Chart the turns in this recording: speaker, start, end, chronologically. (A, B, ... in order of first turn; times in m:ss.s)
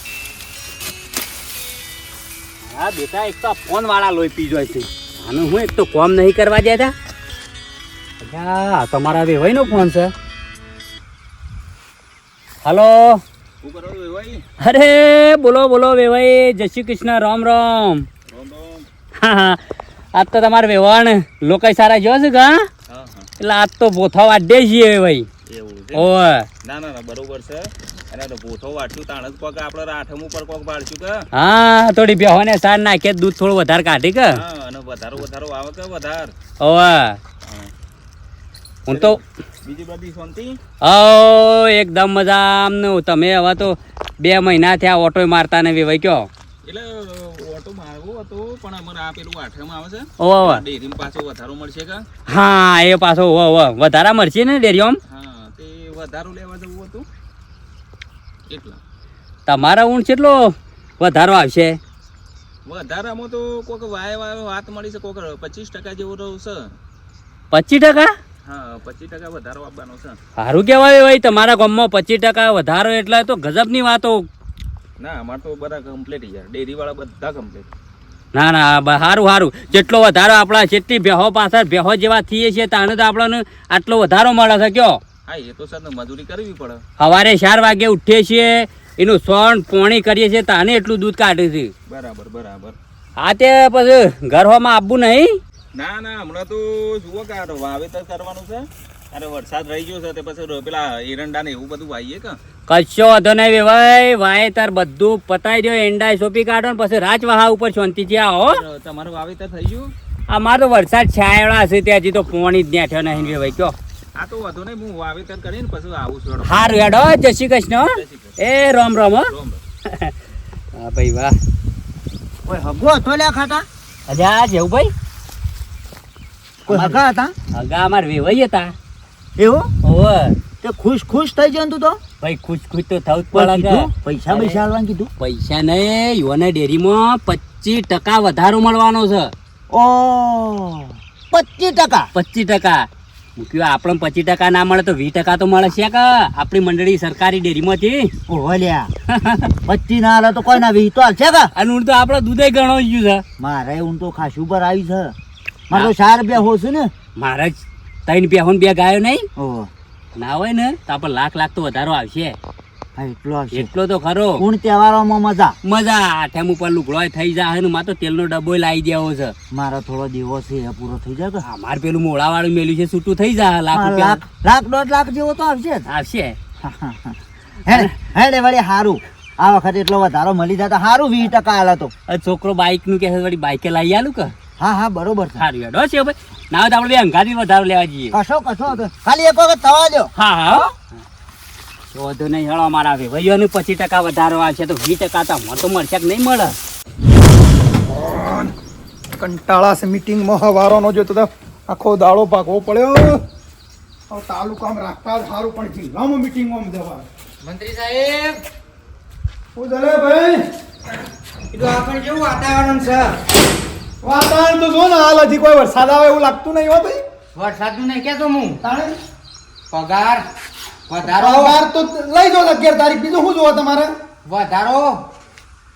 0:02.6-0:06.9 A
0:08.2-0:10.1 A
0:12.6-0:13.2 A
0:13.6-0:14.4 B
0:14.6-0:18.1 A
0:18.3-0:18.9 B
0:19.2-0:19.6 A
0:20.1-0:22.7 A
0:22.9-0:23.3 B
0:23.4-0:25.3 A
0:25.5-0:26.1 B
0:25.9-0:26.5 A
0:26.6-0:31.2 B
0:31.3-0:34.4 A
0:34.3-0:36.3 B
0:36.6-0:37.2 A
0:37.4-0:37.7 B
0:38.9-0:39.2 A
0:38.9-0:40.6 B
0:40.8-0:46.3 A
0:46.6-0:52.0 B
0:50.2-0:50.6 A
0:52.3-0:55.0 A
0:55.1-0:57.1 B
0:58.5-0:58.8 B
0:59.5-1:01.8 A
1:02.6-1:06.8 B
1:07.5-1:08.1 A
1:08.4-1:10.2 B
1:10.4-1:14.3 A
1:15.0-1:17.7 B
1:18.3-1:25.0 A
1:25.3-1:26.8 B
1:27.0-1:31.7 A
1:31.9-1:32.8 B
1:33.2-1:35.4 A
1:35.7-1:42.4 B
1:42.7-1:48.6 A
1:48.4-1:49.9 B
1:50.3-1:53.8 A
1:53.1-1:53.5 B
1:54.2-1:56.9 B
1:56.4-1:59.3 A
1:57.9-1:58.4 B
1:59.3-1:59.6 B
1:59.9-2:00.1 A
2:00.7-2:01.4 A
2:02.4-2:03.6 C
2:04.1-2:04.9 A
2:06.7-2:07.3 C
2:06.7-2:07.0 A
2:07.5-2:08.7 A
2:09.4-2:09.7 C
2:09.8-2:10.4 A
2:10.6-2:12.0 C
2:12.2-2:14.6 A
2:13.3-2:15.1 C
2:15.2-2:19.3 A
2:19.7-2:22.1 C
2:22.1-2:22.8 A
2:23.4-2:28.1 A
2:28.3-2:28.9 C
2:29.1-2:29.5 A
2:29.7-2:31.5 C
2:31.6-2:33.2 A
2:33.4-2:35.1 C
2:35.7-2:36.9 C
2:37.2-2:39.2 A
2:39.4-2:39.7 C
2:40.2-2:42.4 A
2:43.0-2:43.7 C
2:43.5-2:44.4 A
2:44.4-2:45.6 C
2:45.6-2:49.3 A
2:49.5-2:51.4 C
2:51.4-2:54.2 A
2:53.7-2:55.8 C
2:55.9-2:56.4 A
2:56.6-3:01.9 C
3:02.1-3:04.3 A
3:04.6-3:05.4 C
3:05.4-3:08.2 A
3:08.1-3:10.6 C
3:10.2-3:10.7 A
3:11.9-3:16.5 A
3:17.9-3:18.5 D
3:19.2-3:23.2 D
3:24.1-3:27.0 D
3:27.4-3:28.4 E
3:29.5-3:30.4 D
3:31.5-3:33.2 E
3:34.0-3:37.0 D
3:37.3-3:38.6 E
3:38.6-3:38.9 D
3:39.7-3:40.2 E
3:40.9-3:41.6 E
3:41.0-3:43.9 D
3:44.2-3:45.0 E